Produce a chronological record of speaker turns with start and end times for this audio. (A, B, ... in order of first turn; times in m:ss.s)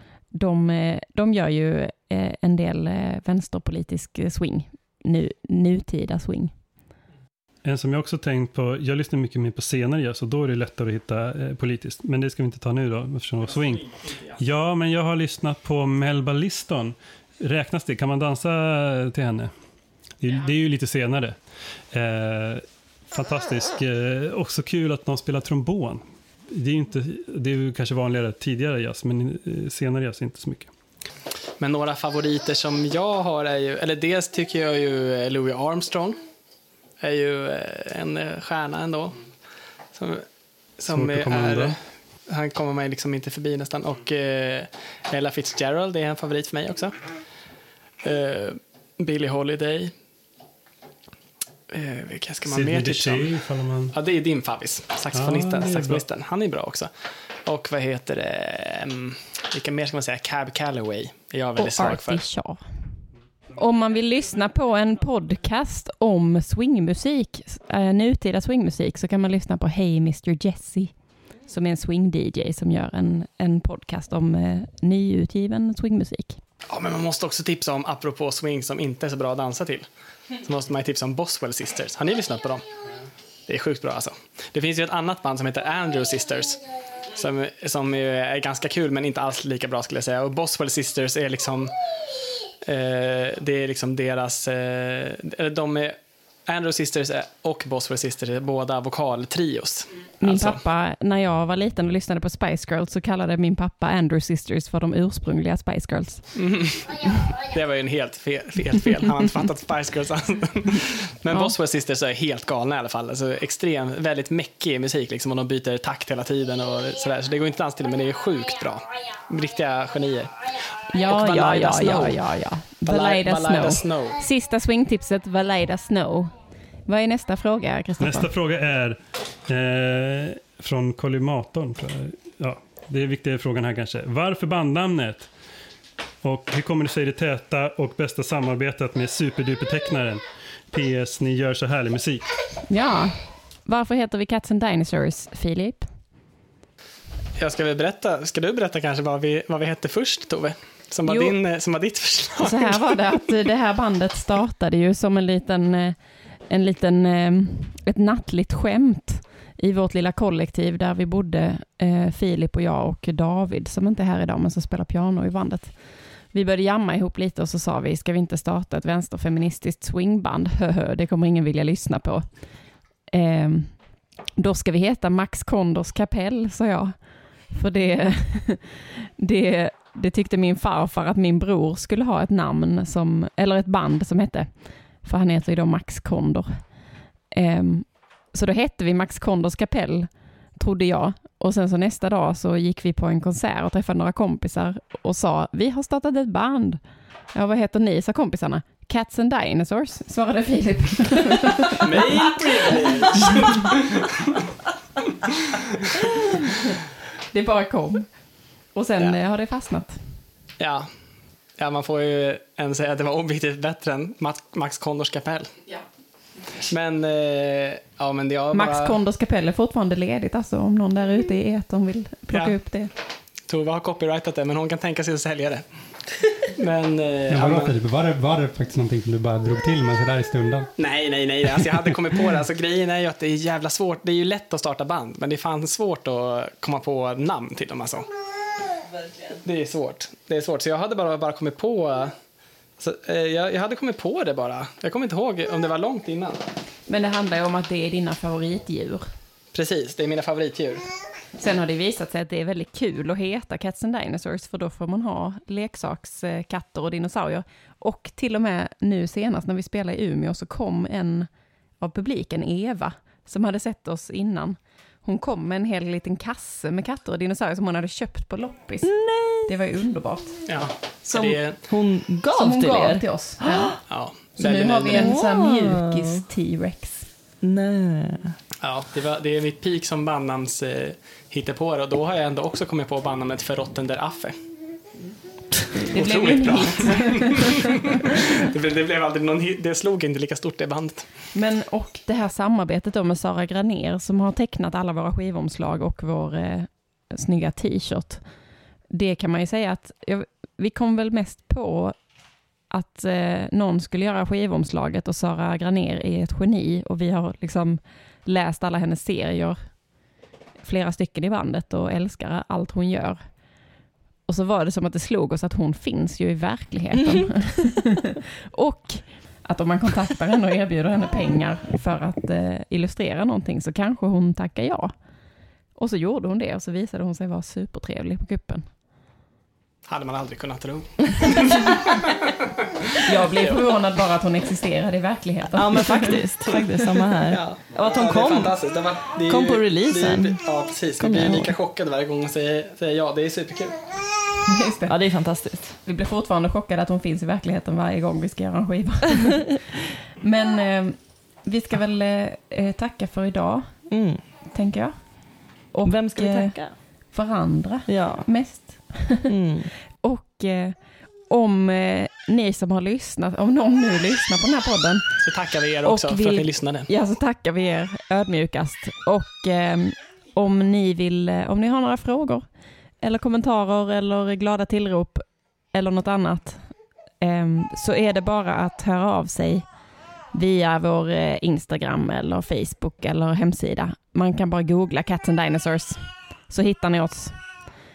0:00.3-0:06.5 A
0:07.6-0:19.5 B
0:13.5-0:14.4 C
0:20.2-0:21.4 B
0:21.9-0:30.7 B
0:31.6-0:36.2 C
0:37.0-0:39.2 C
0:39.9-0:40.2 C
0:40.8-0:47.0 C
0:40.9-0:41.8 B
0:48.0-0:49.9 C
0:51.7-0:53.4 C
0:52.4-0:53.9 B
0:53.9-0:56.9 C
0:55.1-0:56.0 B
0:57.4-1:02.2 C
1:01.6-1:02.6 A
1:03.5-1:16.4 A
1:16.7-1:19.8 C
1:20.4-1:22.6 C
1:23.5-1:26.6 C
1:27.1-1:31.7 C
1:32.6-1:40.6 C
1:40.2-1:46.3 A
1:46.4-2:00.4 C
2:00.9-2:06.3 A
2:01.0-2:02.2 C
2:02.8-2:04.2 C
2:06.8-2:08.3 A
2:08.0-2:15.3 B
2:16.2-2:22.3 B
2:22.7-2:25.9 A
2:27.4-2:32.9 C
2:31.0-2:31.4 A
2:32.4-2:52.5 A
2:53.1-2:53.8 A
2:54.4-3:06.7 A
3:07.3-3:16.8 A
3:17.3-3:21.8 A
3:21.8-3:24.4 C
3:27.3-3:28.1 A
3:28.7-3:30.0 A
3:30.6-3:30.9 C
3:31.6-3:35.6 C
3:36.6-3:39.0 C
3:38.5-3:42.9 A
3:42.3-3:42.6 C
3:43.5-3:47.7 C
3:47.3-3:50.7 D
3:50.8-3:58.1 C
3:51.5-3:51.9 D
3:59.3-4:02.1 C
4:02.8-4:06.4 C
4:06.9-4:09.0 A
4:09.5-4:10.9 C
4:11.4-4:21.3 A
4:21.8-4:30.4 A
4:28.8-4:29.5 E
4:30.4-4:31.6 C
4:31.2-4:33.7 E
4:32.3-4:37.1 A
4:33.9-4:35.1 C
4:34.9-4:36.2 E
4:37.4-4:38.4 E
4:38.6-4:44.4 C
4:45.7-4:48.0 A
4:45.9-4:47.5 C
4:48.1-4:51.1 C
4:51.3-4:58.2 A
4:58.9-5:02.0 A
5:02.7-5:09.8 A
5:10.6-5:13.3 A
5:14.3-5:24.9 A
5:25.8-5:28.7 A
5:29.9-5:32.3 C
5:33.0-5:36.2 A
5:33.3-5:33.7 C
5:35.5-5:38.6 E
5:37.2-5:43.9 C
5:39.3-5:40.4 E
5:41.0-5:41.5 E
5:44.5-5:45.0 A
5:44.9-5:45.8 E
5:45.6-5:53.9 A
5:53.9-5:54.2 E
5:54.5-5:59.3 A
5:55.8-5:56.7 E
5:57.9-5:59.7 E
5:59.9-6:05.2 A
6:05.2-6:06.9 C
6:05.8-6:12.4 A
6:13.0-6:19.7 A
6:20.3-6:27.7 A